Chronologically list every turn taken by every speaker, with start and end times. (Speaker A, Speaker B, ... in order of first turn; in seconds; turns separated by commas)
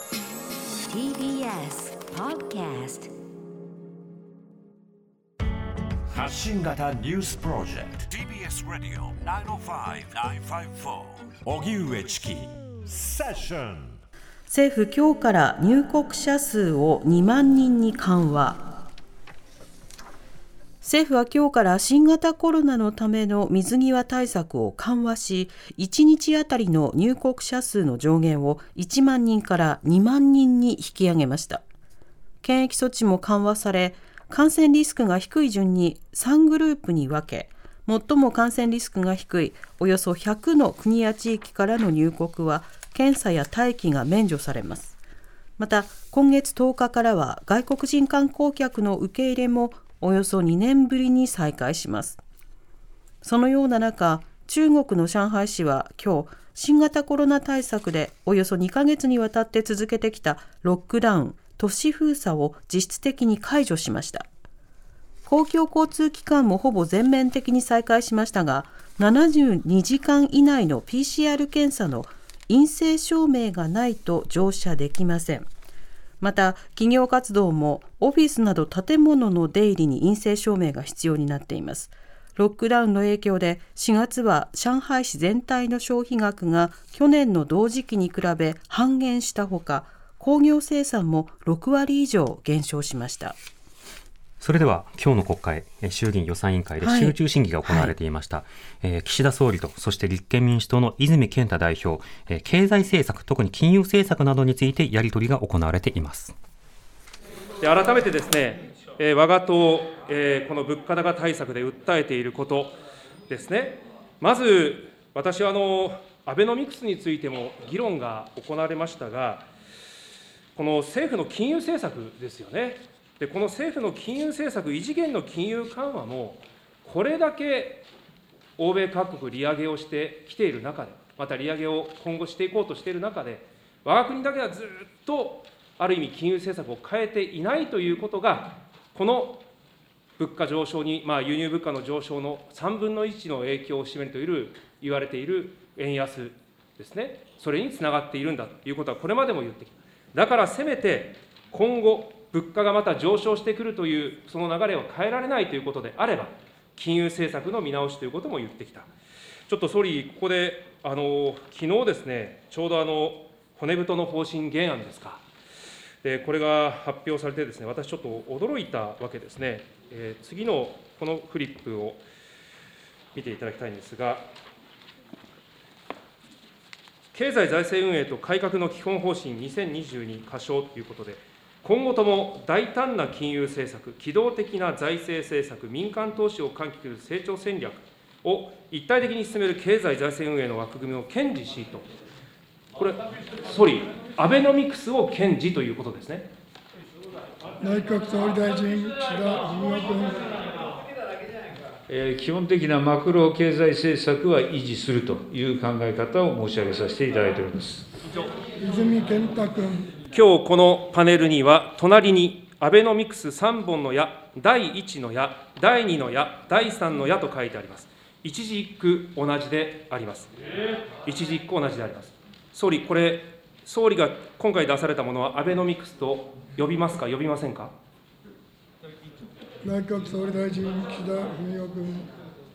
Speaker A: 0.9-3.1, Speaker B: 8.4-10.0, Speaker B: 11.6-12.3, Speaker B: 13.3-13.6, Speaker C: 14.5-18.6, Speaker C: 20.8-31.6, Speaker C: 32.4-45.0, Speaker C: 45.6-52.2, Speaker C: 53.2-64.3, Speaker C: 65.2-75.5, Speaker C: 76.2-93.4, Speaker D: 94.4-106.3, Speaker C: 96.8-97.9, Speaker E: 107.6-112.7, Speaker E: 113.3-119.5, Speaker E: 120.5-127.8, Speaker E: 128.6-139.4, Speaker E: 140.2-158.9, Speaker E: 159.5-165.2, Speaker E: 166.0-172.0, Speaker E: 173.1-174.2, Speaker E: 177.1-191.9, Speaker E: 192.8-196.3, Speaker F: 197.6-200.2, Speaker G: 201.9-207.9, Speaker F: 208.6-209.9, Speaker E: 210.1-220.3, Speaker E: 221.0-227.7, Speaker F: 229.6-232.1